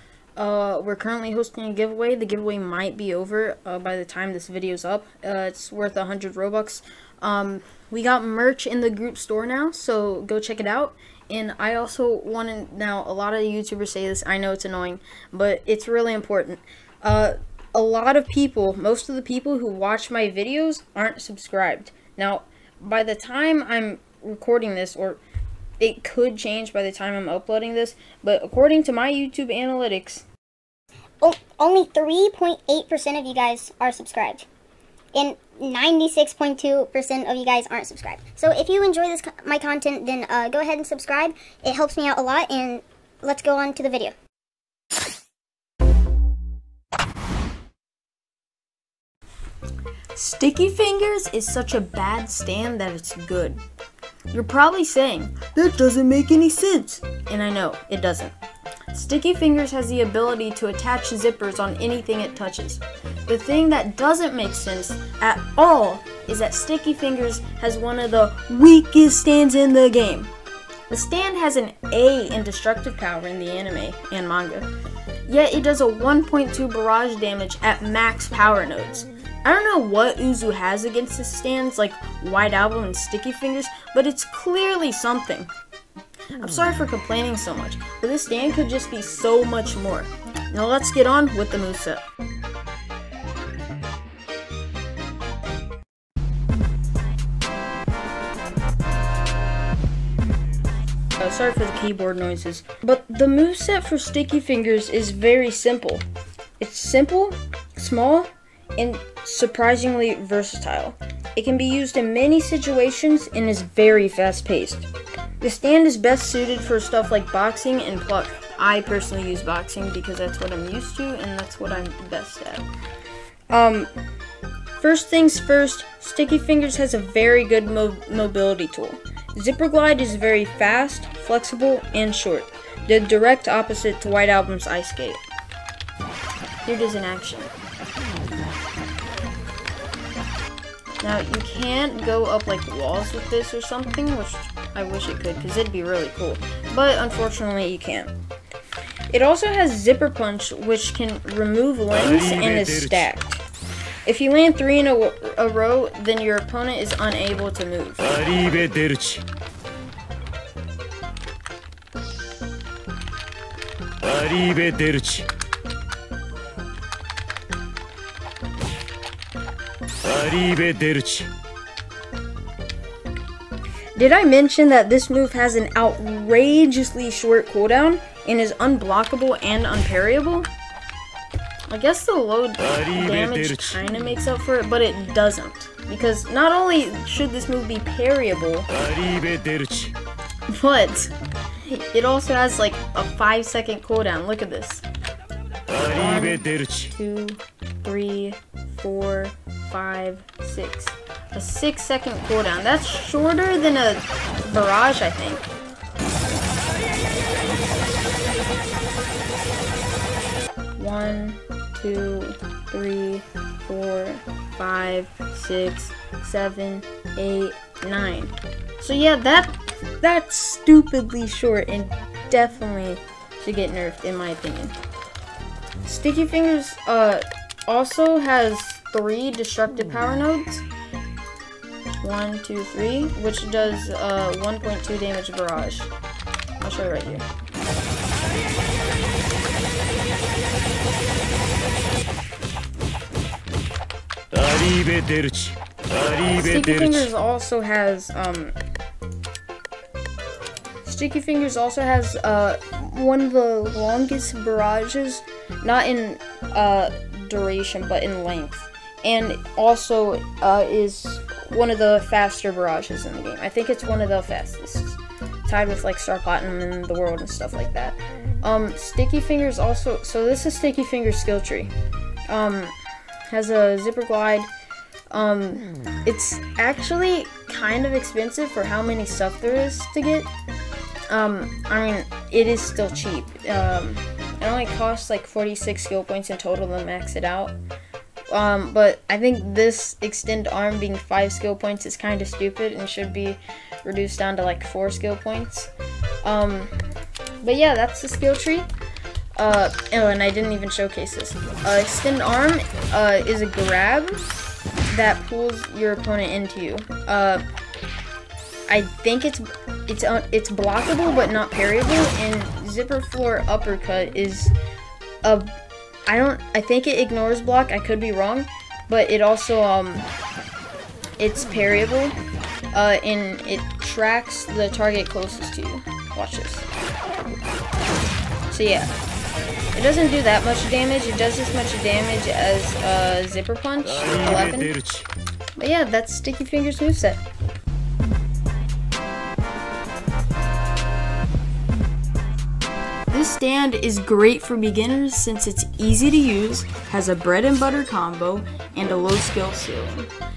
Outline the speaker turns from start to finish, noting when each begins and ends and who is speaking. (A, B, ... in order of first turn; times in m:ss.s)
0:00.4-0:25.2 A
0:25.8-0:30.2 A
0:31.2-0:34.4 B
0:35.1-0:44.1 B
0:50.1-0:53.6 A
0:54.3-0:58.3 A
0:58.9-1:10.3 A
1:10.9-1:14.7 A
1:15.3-1:25.5 A
1:26.4-1:32.0 A
1:41.2-1:46.0 A
1:46.6-1:54.9 A
1:55.4-2:02.6 A
2:03.5-2:03.9 A
2:04.8-2:15.2 A
2:16.6-2:17.5 A
2:21.0-2:28.1 A
2:29.1-2:33.4 A
2:32.6-2:33.0 C
2:34.0-2:38.4 A
2:38.4-2:39.2 C
2:44.0-2:45.3 C
2:50.0-2:51.3 C
2:54.0-3:00.5 A
3:01.7-3:08.8 A
3:03.1-3:03.6 C
3:08.8-3:09.9 C
3:10.5-3:14.8 A
3:15.7-3:25.5 A
3:30.8-3:44.7 A
3:45.8-3:50.6 A
3:52.0-3:55.9 A
3:56.6-3:57.2 A
4:04.3-4:05.6 C
4:05.9-4:08.6 A
4:10.8-4:31.7 A
4:32.3-4:32.7 A
4:33.3-4:34.5 A
4:35.1-4:40.3 A
4:41.1-4:47.6 A
4:48.3-4:55.7 A
4:56.2-4:56.7 A
4:57.4-4:58.7 A
4:59.4-5:04.2 A
5:04.9-5:07.4 A
5:08.7-5:14.5 A
5:15.2-5:15.5 A
5:16.1-5:20.1 A
5:21.2-5:22.2 A
5:22.7-5:26.7 A
5:28.5-5:28.9 A
5:29.7-5:34.7 A
5:33.9-5:35.1 C
5:35.6-5:37.2 A
5:43.1-5:50.1 A